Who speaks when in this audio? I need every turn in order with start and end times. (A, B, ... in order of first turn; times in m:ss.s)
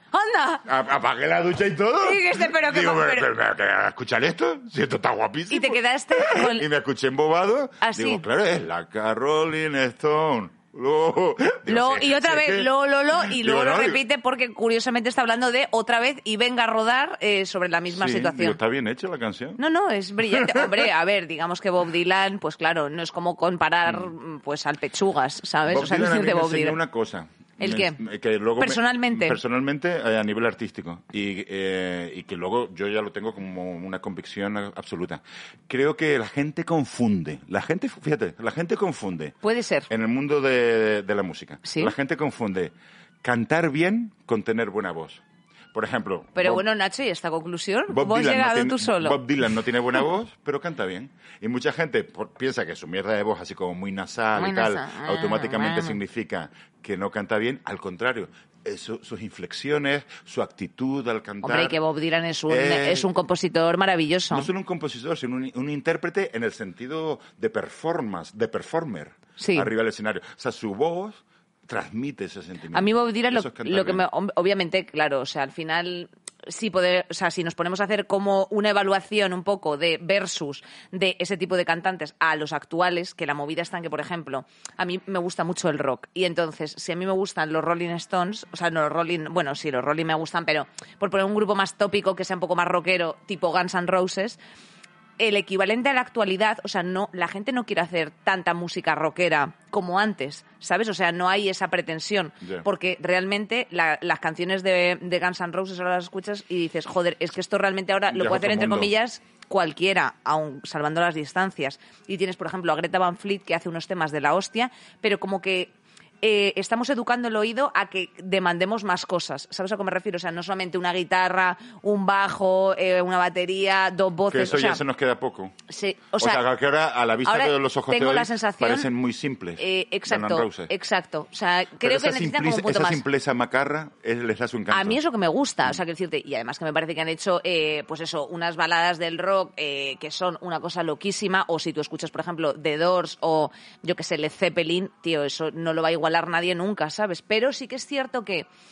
0:00.1-0:00.7 A
0:00.7-0:14.0 B
0:02.0-0:03.3 A
0:05.5-0:06.7 A
0:07.8-0:08.2 A
0:11.7-0:18.6 A
0:17.9-0:19.6 B
0:19.6-0:26.8 A
0:20.2-0:20.9 B
0:25.6-0:39.4 B
0:27.6-0:28.0 A
0:28.6-0:29.4 A
0:39.4-0:39.9 A
0:39.9-0:46.6 B
0:41.6-0:41.9 A
0:46.4-0:49.2 A
0:47.9-1:01.8 B
0:54.4-0:56.0 A
1:01.4-1:04.5 A
1:02.5-1:03.1 B
1:04.3-1:14.0 B
1:09.4-1:09.7 A
1:12.7-1:34.4 A
1:35.2-2:04.8 A
1:48.1-1:48.9 B
2:04.3-2:05.6 B
2:05.7-2:06.4 A
2:06.2-2:10.7 B
2:07.2-2:08.9 A
2:09.6-2:13.0 A
2:11.8-2:15.0 B
2:14.7-2:28.5 A